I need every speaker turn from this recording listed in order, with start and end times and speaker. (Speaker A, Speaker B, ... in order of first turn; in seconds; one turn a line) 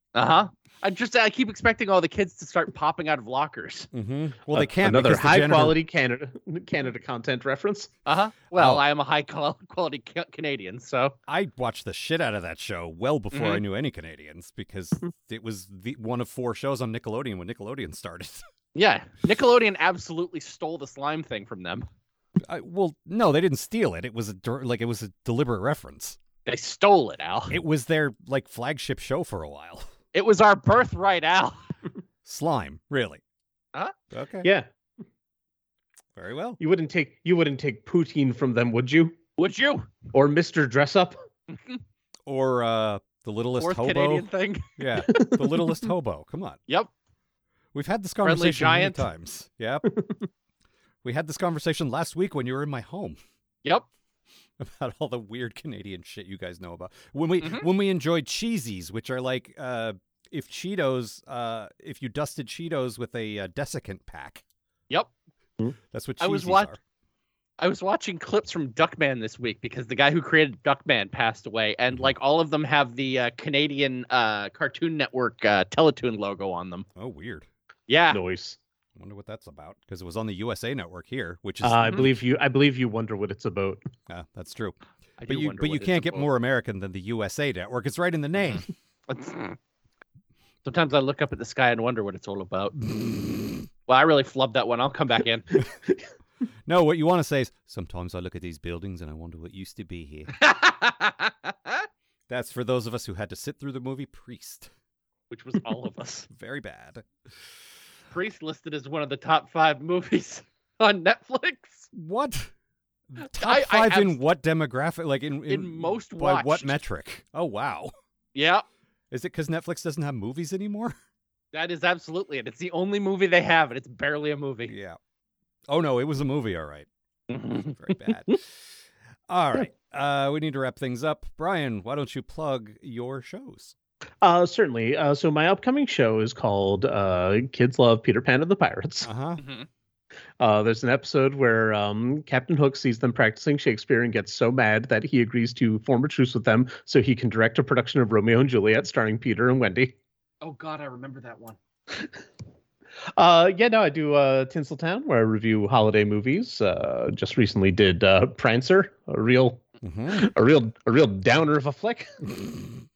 Speaker A: 0.1-3.9
Speaker B: 3.9-5.8
Speaker C: 4.5-7.9
Speaker A: 8.1-11.2
Speaker B: 8.5-8.8
Speaker B: 11.3-18.4
Speaker A: 13.3-13.6
Speaker A: 18.8-21.9
Speaker B: 22.4-26.2
Speaker A: 26.5-27.6
Speaker B: 27.5-29.9
Speaker A: 30.1-31.6
Speaker B: 32.2-33.2
Speaker B: 34.1-34.5
Speaker B: 36.1-36.6
Speaker C: 36.6-39.2
Speaker A: 39.4-39.9
Speaker C: 40.1-41.1
Speaker A: 41.5-41.8
Speaker B: 42.3-46.6
Speaker A: 43.6-44.8
Speaker C: 45.1-45.8
Speaker B: 47.7-49.9
Speaker A: 48.2-49.1
Speaker B: 51.0-53.2
Speaker B: 54.6-64.4
Speaker A: 57.4-57.7
Speaker B: 65.9-66.8
Speaker A: 66.2-66.7
Speaker A: 67.6-76.9
Speaker B: 77.0-77.5
Speaker A: 77.9-78.2
Speaker C: 78.1-78.6
Speaker B: 79.0-82.1
Speaker C: 81.6-83.8
Speaker B: 84.1-88.7
Speaker A: 85.2-86.3
Speaker A: 89.1-89.6
Speaker A: 90.7-93.0
Speaker A: 93.9-95.5
Speaker B: 96.7-100.3
Speaker A: 100.4-101.9
Speaker B: 102.3-104.7
Speaker A: 105.3-106.3
Speaker B: 106.3-107.0
Speaker A: 108.1-111.9
Speaker B: 111.9-112.5
Speaker B: 113.1-117.9
Speaker A: 113.2-114.2
Speaker A: 115.5-116.8
Speaker A: 118.3-118.6
Speaker B: 119.1-121.0
Speaker A: 121.5-124.8
Speaker B: 124.7-125.0
Speaker B: 125.7-126.9
Speaker A: 127.3-128.3
Speaker B: 127.7-128.7
Speaker B: 129.3-133.7
Speaker C: 134.2-139.1
Speaker B: 139.0-139.4
Speaker A: 139.4-139.7
Speaker C: 140.4-149.9
Speaker A: 150.4-151.6
Speaker C: 153.2-162.1
Speaker B: 159.8-160.3